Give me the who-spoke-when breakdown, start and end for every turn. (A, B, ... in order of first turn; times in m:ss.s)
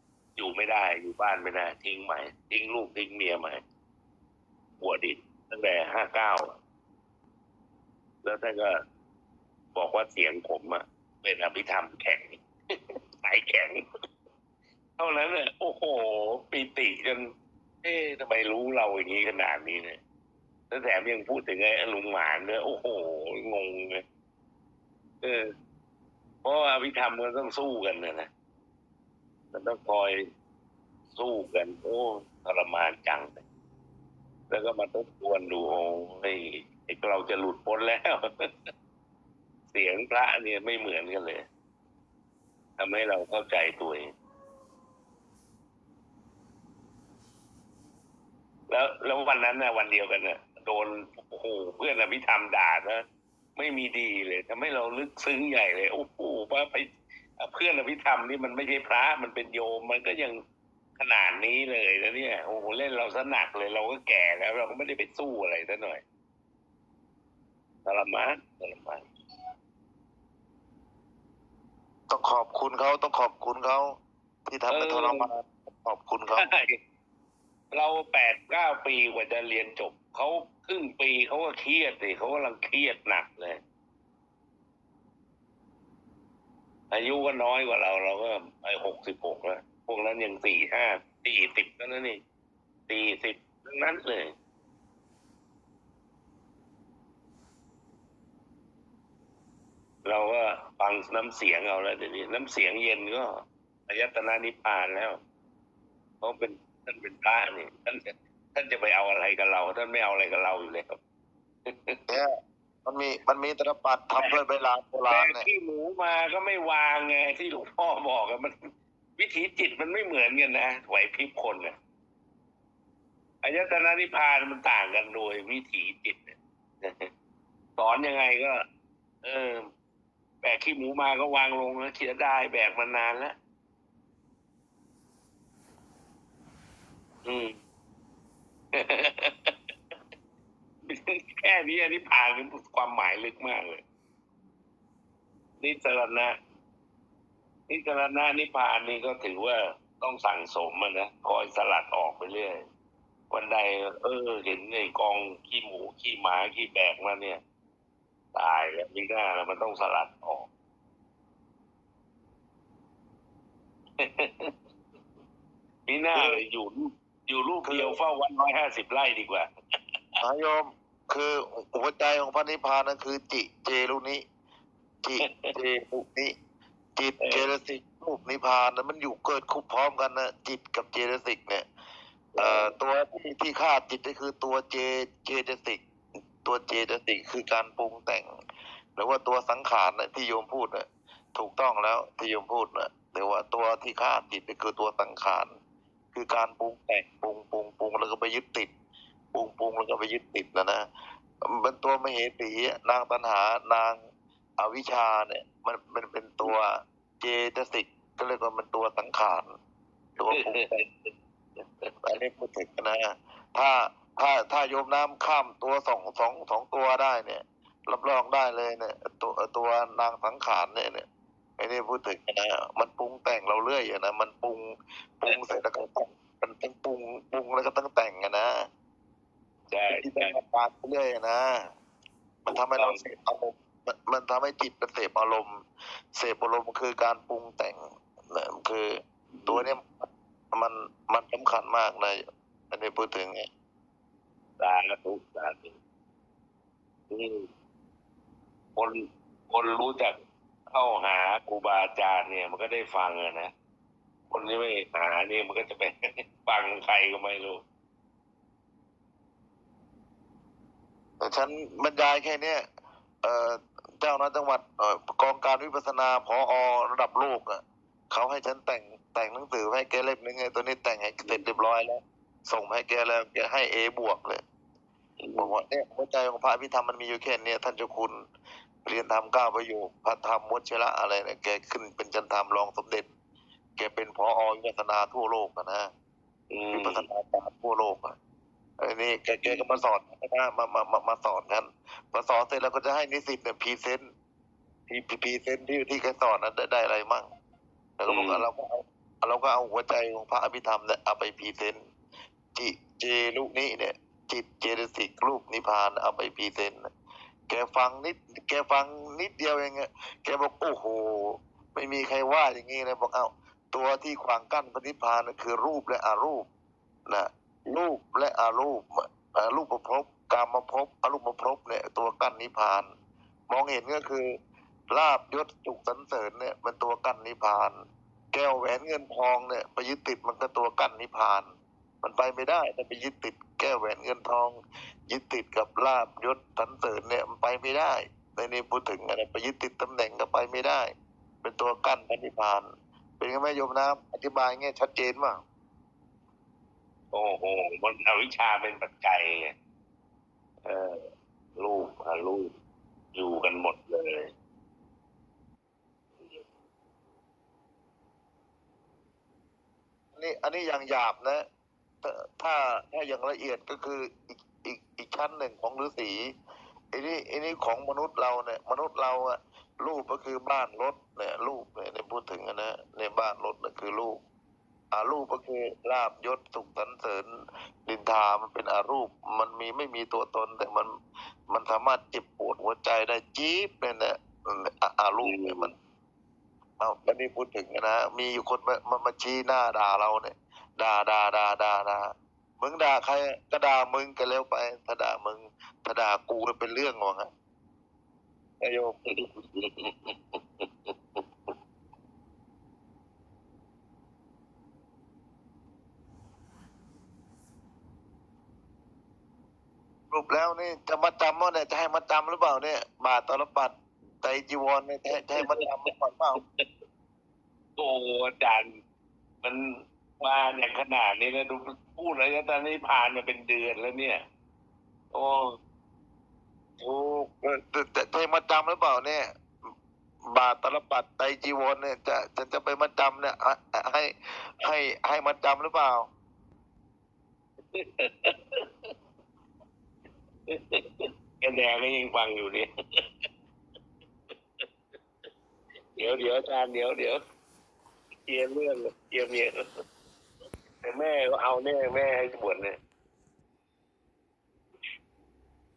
0:00.4-0:03.6 A
0:04.8-0:06.6 A
0:08.2-0:08.8 A
0:09.7-0:13.8 A
0:15.0-0:17.3 A
0:17.8-0:20.0 A
0:20.7-0:24.0 A
0:25.2-0:25.5 A
0:26.4-0:28.3 A
0:29.5-0:30.3 A
0:31.1-0:33.4 A
0:34.5-0:38.7 A
0:39.7-0:41.5 A
0:42.8-0:44.1 A
0:48.7-0:53.0 A
0:53.6-1:00.4 A
1:01.0-1:06.0 A
1:07.8-1:09.1 A
1:12.1-1:16.5 B
1:14.7-1:15.3 A
1:16.3-1:16.8 A
1:17.7-1:23.6 A
1:26.9-1:32.2 A
1:32.9-1:34.3 A
1:40.0-1:45.2 A
1:46.2-1:51.0 A
1:51.7-1:52.0 A
1:52.1-1:55.5 B
1:55.1-1:58.6 A
1:59.2-2:01.8 A
2:03.4-2:07.1 A
2:07.8-2:08.6 A
2:09.2-2:09.7 A
2:10.4-2:13.4 A
2:17.2-2:17.6 A
2:18.7-2:19.6 A
2:20.9-2:23.8 A
2:25.6-2:26.4 A
2:27.7-2:32.6 A
2:33.3-2:37.4 A
2:38.4-2:40.5 A
2:44.0-2:44.5 A
2:45.9-2:49.5 A
2:46.2-2:46.4 B
2:47.6-2:48.0 B
2:50.2-2:54.2 B
2:55.0-2:56.3 B
2:55.2-2:55.5 A
2:57.0-3:01.7 B
2:57.2-2:57.5 A
3:02.3-3:02.7 A
3:02.4-3:05.8 B
3:06.4-3:08.3 B
3:09.0-3:15.5 B
3:16.1-3:18.7 B
3:19.3-3:20.9 B
3:21.4-3:24.0 B
3:24.6-3:29.5 B
3:30.2-3:30.8 B
3:30.3-3:31.9 A
3:32.0-3:41.1 B
3:41.6-3:48.6 B
3:45.3-3:45.6 A
3:49.7-3:50.3 A
3:49.9-3:51.7 B
3:52.4-3:55.6 B
3:52.5-3:53.0 A
3:56.2-4:03.5 B
3:59.3-3:59.7 A
4:04.6-4:05.8 A
4:07.1-4:07.5 A
4:08.8-4:10.2 A
4:10.7-4:13.5 A
4:14.3-4:17.6 A
4:21.2-4:22.6 B
4:23.2-4:34.4 B
4:35.2-4:35.5 A
4:35.4-4:38.2 B
4:38.8-4:43.1 B
4:43.8-4:45.9 B
4:46.5-4:47.1 A
4:46.7-4:48.2 B
4:48.8-4:54.0 B
4:49.4-4:49.8 A
4:54.9-4:57.3 B
4:58.0-5:01.8 B
4:58.1-4:58.5 A
5:02.6-5:06.9 B
5:07.5-5:16.5 B
5:17.1-5:22.9 B
5:23.5-5:24.3 B
5:24.9-5:27.7 B
5:28.3-5:31.5 B
5:32.0-5:40.9 B
5:41.4-5:42.7 B
5:43.2-5:45.4 B
5:47.1-5:49.5 A
5:50.6-5:51.0 A
5:51.6-5:52.5 A
5:53.1-5:54.3 A
6:00.2-6:01.4 B
6:02.0-6:06.2 B
6:06.9-6:14.2 B
6:14.9-6:20.9 B
6:21.5-6:25.7 B
6:25.2-6:25.7 A
6:26.8-6:37.3 B
6:38.6-6:39.0 B
6:39.1-6:41.6 A
6:50.1-6:56.4 B
6:55.1-6:55.4 A
6:57.8-6:58.7 A
6:59.4-7:04.2 A
7:05.1-7:05.6 A
7:06.8-7:09.3 B
7:10.3-7:16.1 B
7:17.7-7:18.9 A
7:20.5-7:23.2 A
7:26.0-7:27.2 A
7:28.3-7:29.6 A
7:30.8-7:32.8 A